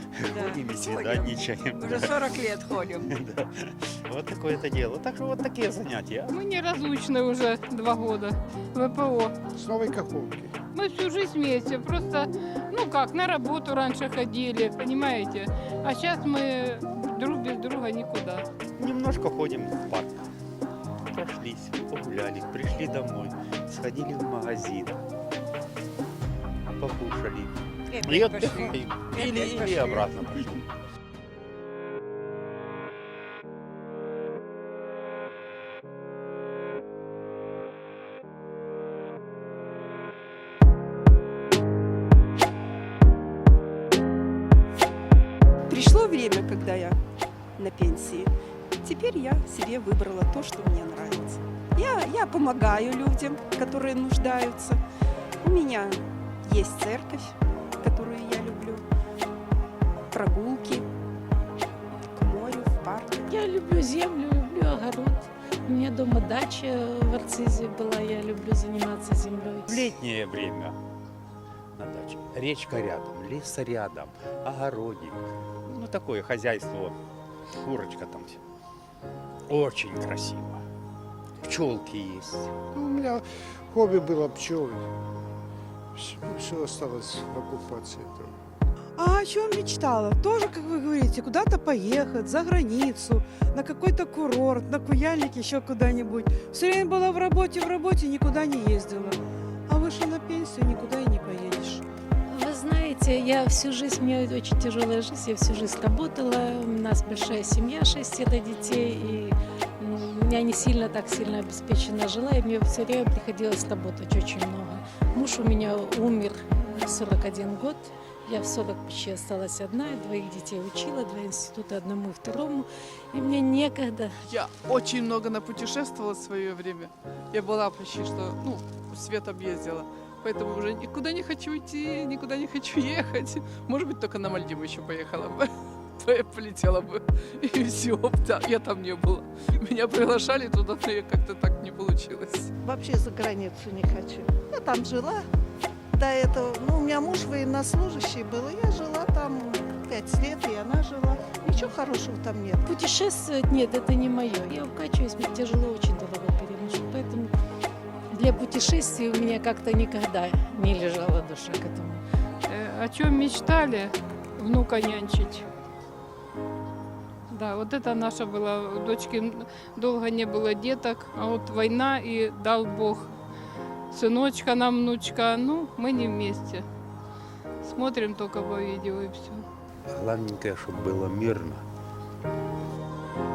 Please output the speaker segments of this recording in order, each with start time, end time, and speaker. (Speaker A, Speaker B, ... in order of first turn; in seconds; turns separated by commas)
Speaker A: 0.2-2.2, Speaker B: 0.3-3.1, Speaker A: 3.1-6.3, Speaker C: 6.3-9.3, Speaker D: 9.6-10.5, Speaker C: 10.7-18.4, Speaker A: 18.8-20.2, Speaker A: 21.1-25.0, Speaker A: 26.8-30.6, Speaker B: 27.9-30.2, Speaker E: 45.7-47.0, Speaker E: 47.6-48.3, Speaker E: 48.8-54.8, Speaker E: 55.4-58.8, Speaker E: 60.1-60.9, Speaker E: 62.1-63.3, Speaker F: 63.3-69.8, Speaker A: 69.7-70.8, Speaker A: 71.7-77.0, Speaker A: 77.5-78.4, Speaker A: 79.5-80.6, Speaker A: 81.4-82.5, Speaker D: 82.7-84.9, Speaker D: 85.9-88.3, Speaker G: 89.0-101.8, Speaker F: 102.3-124.2, Speaker H: 124.2-142.5, Speaker I: 142.6-145.3, Speaker I: 145.9-152.6, Speaker F: 152.6-157.3, Speaker F: 158.1-162.0, Speaker C: 162.4-165.4, Speaker C: 167.3-173.1, Speaker C: 173.9-176.6, Speaker C: 177.6-179.4, Speaker A: 179.9-181.6